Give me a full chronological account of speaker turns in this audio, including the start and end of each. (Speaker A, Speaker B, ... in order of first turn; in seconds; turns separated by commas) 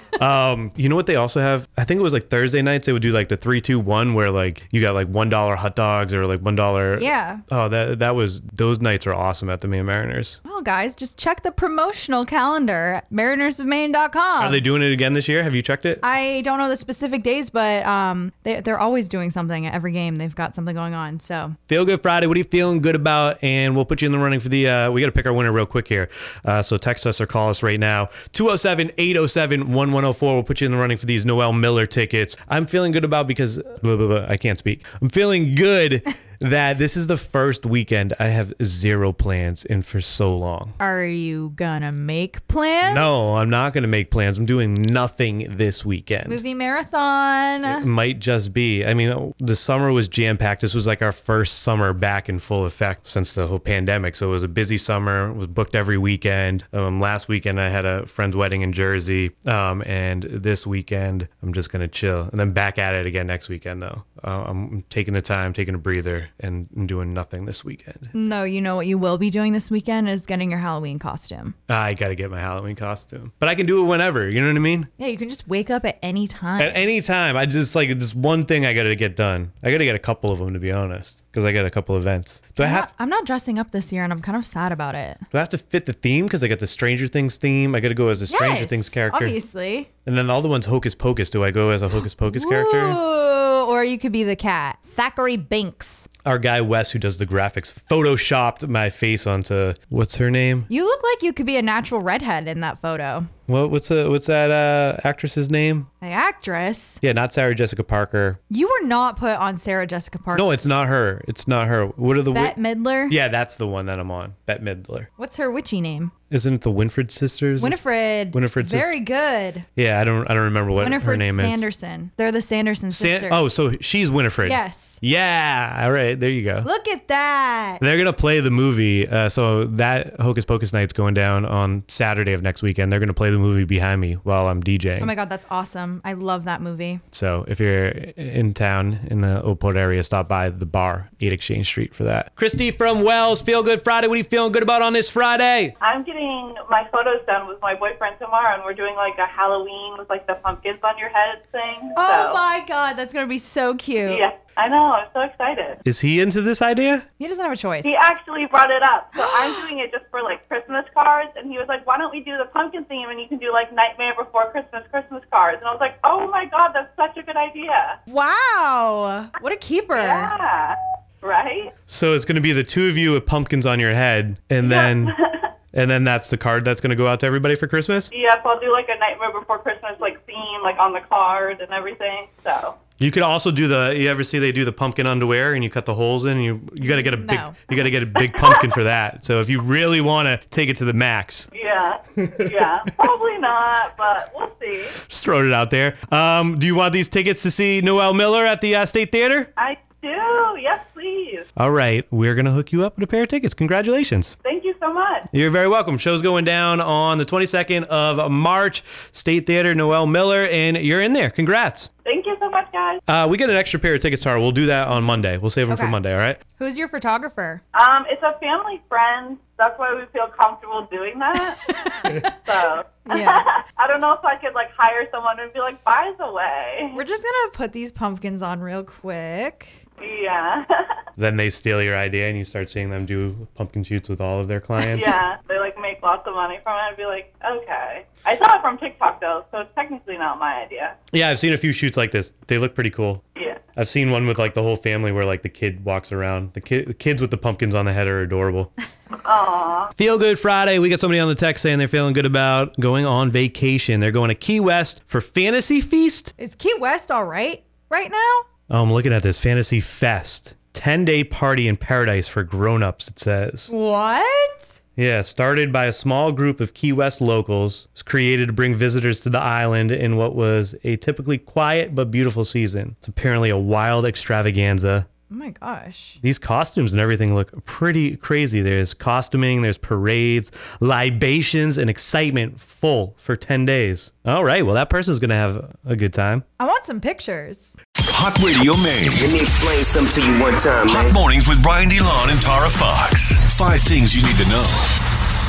Speaker A: 0.2-10.4, Speaker B: 7.0-7.4, Speaker B: 10.4-14.6, Speaker A: 14.4-16.0, Speaker B: 16.0-21.6, Speaker A: 21.7-40.8, Speaker B: 40.8-43.3, Speaker A: 42.8-46.4, Speaker B: 46.3-47.9, Speaker A: 47.6-68.1, Speaker B: 68.1-71.6, Speaker A: 71.7-74.9, Speaker B: 75.0-76.9, Speaker A: 76.6-82.9, Speaker B: 82.6-85.2, Speaker A: 85.3-89.4, Speaker B: 88.3-89.9, Speaker A: 90.1-93.0, Speaker B: 92.3-96.1, Speaker A: 96.2-100.7, Speaker B: 100.7-103.3, Speaker A: 103.5-105.9, Speaker B: 106.0-107.0, Speaker A: 107.0-108.4, Speaker B: 108.5-110.5, Speaker A: 110.3-112.6, Speaker B: 112.3-113.2, Speaker A: 113.1-115.1, Speaker B: 115.2-116.1, Speaker A: 116.3-117.8, Speaker B: 117.6-119.7, Speaker A: 118.3-118.9, Speaker A: 119.8-121.7, Speaker B: 120.8-123.5, Speaker A: 122.9-126.7, Speaker B: 124.4-125.0, Speaker B: 126.6-127.8, Speaker A: 127.8-135.1, Speaker B: 135.0-137.0, Speaker A: 137.1-145.7, Speaker C: 145.8-152.4, Speaker B: 152.0-154.2, Speaker C: 154.1-155.8, Speaker A: 155.8-157.1, Speaker B: 157.2-158.0, Speaker C: 157.8-168.0, Speaker B: 159.2-159.6, Speaker B: 168.1-170.3, Speaker C: 170.0-171.7, Speaker A: 171.9-175.2, Speaker C: 174.6-175.5, Speaker A: 175.7-178.1, Speaker C: 178.1-182.8, Speaker A: 183.0-191.5, Speaker B: 186.8-187.6, Speaker C: 188.2-188.7, Speaker C: 191.6-195.0, Speaker A: 192.2-192.5, Speaker A: 195.0-199.5, Speaker C: 199.6-201.5, Speaker A: 201.6-204.3, Speaker C: 204.4-205.3, Speaker A: 205.3-211.9, Speaker C: 212.1-213.0, Speaker A: 213.1-216.4, Speaker B: 215.7-216.0, Speaker B: 216.6-217.6, Speaker C: 217.7-227.0, Speaker B: 221.4-222.3, Speaker B: 223.1-223.5, Speaker B: 226.9-229.7, Speaker C: 230.0-230.9, Speaker A: 231.2-235.2, Speaker C: 234.8-240.9, Speaker A: 241.1-243.2, Speaker C: 243.4-243.6, Speaker A: 243.8-248.7, Speaker C: 249.2-249.9, Speaker A: 250.0-256.3, Speaker B: 256.4-258.5, Speaker A: 258.7-263.7, Speaker B: 263.7-264.8, Speaker A: 265.0-275.1, Speaker B: 275.3-276.2, Speaker A: 276.2-286.4, Speaker B: 286.6-287.8, Speaker D: 288.1-289.4, Speaker E: 289.2-291.2, Speaker D: 290.9-294.9